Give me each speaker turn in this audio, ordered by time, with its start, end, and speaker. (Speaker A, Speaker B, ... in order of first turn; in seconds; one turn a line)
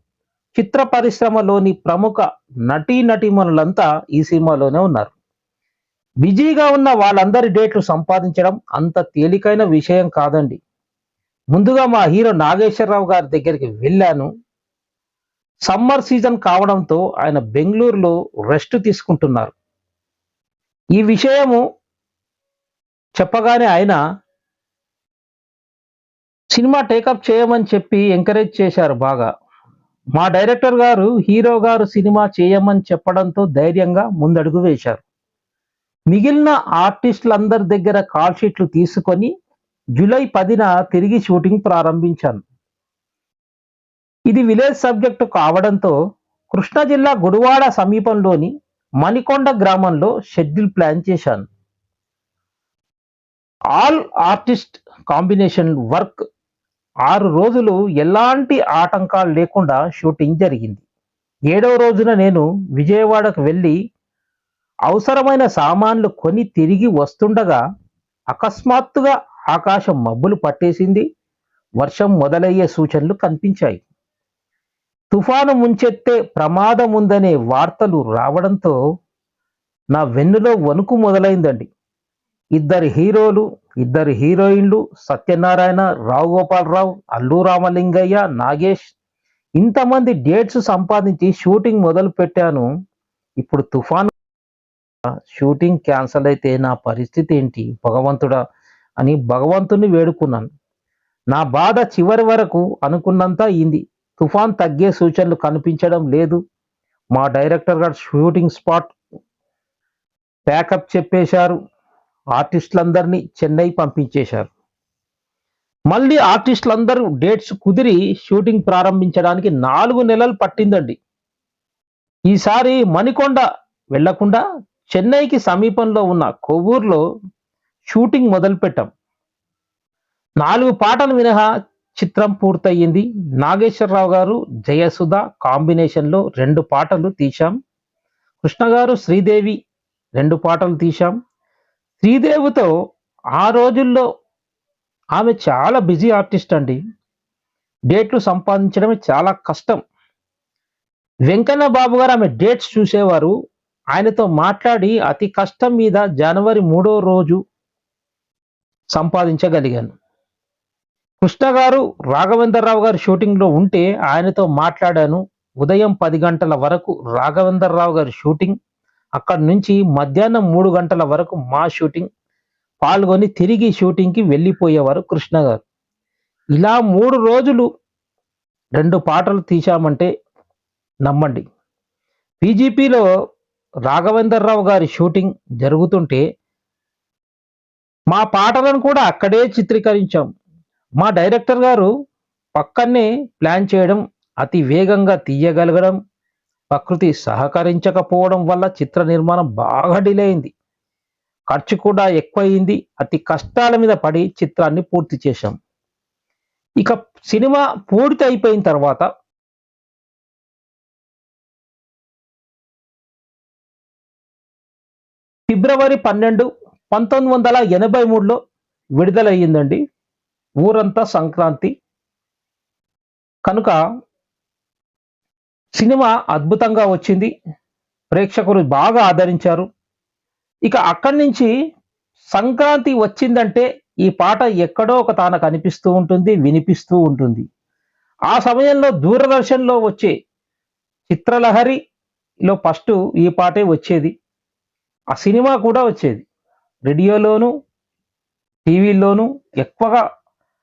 Speaker A: 0.5-5.1
Speaker A: 6.2-10.6
Speaker A: 11.5-14.3
Speaker A: 15.7-19.5
Speaker A: 20.9-21.6
Speaker A: 23.2-24.0
Speaker A: 26.5-29.3
Speaker A: 30.1-35.0
Speaker A: 36.1-39.3
Speaker A: 40.0-42.4
Speaker A: 44.3-45.9
Speaker A: 46.5-48.5
Speaker A: 49.0-51.4
Speaker A: 53.8-56.1
Speaker A: 57.1-60.8
Speaker A: 61.5-63.8
Speaker A: 64.9-67.6
Speaker A: 68.3-71.0
Speaker A: 71.8-73.8
Speaker A: 75.1-78.7
Speaker A: 79.9-81.7
Speaker A: 82.5-88.9
Speaker A: 89.6-92.7
Speaker A: 93.4-94.1
Speaker A: 95.3-98.4
Speaker A: 99.0-100.5
Speaker A: 101.3-106.4
Speaker A: 107.1-108.9
Speaker A: 110.5-111.5
Speaker A: 112.3-114.5
Speaker A: 115.9-121.0
Speaker A: 122.3-123.4
Speaker A: 123.9-127.0
Speaker A: 127.9-128.9
Speaker A: 130.4-131.4
Speaker A: 132.0-137.5
Speaker A: 138.4-139.6
Speaker A: 140.2-141.1
Speaker A: 142.0-142.7
Speaker A: 143.4-144.0
Speaker A: 145.1-146.8
Speaker A: 147.9-149.8
Speaker A: 151.3-153.3
Speaker A: 153.9-157.4
Speaker A: 158.9-159.9
Speaker A: 161.2-168.5
Speaker A: 169.2-172.1
Speaker A: 172.8-175.6
Speaker A: 176.5-177.7
Speaker A: 178.8-180.1
Speaker A: 181.0-181.4
Speaker A: 182.4-183.0
Speaker A: 183.9-186.2
Speaker A: 188.1-190.2
Speaker A: 191.0-191.9
Speaker A: 192.6-196.0
Speaker A: 196.7-200.5
Speaker A: 201.5-205.6
Speaker A: 206.8-209.1
Speaker A: 215.5-218.4
Speaker A: 219.0-219.8
Speaker A: 220.6-221.7
Speaker A: 223.4-223.8
Speaker A: 225.8-227.3
Speaker A: 228.1-229.7
Speaker A: 230.6-231.5
Speaker A: 232.3-237.4
Speaker A: 238.3-240.1
Speaker A: 241.1-241.8
Speaker A: 242.5-244.1
Speaker A: 245.1-246.2
Speaker A: 246.8-247.5
Speaker A: 248.7-250.0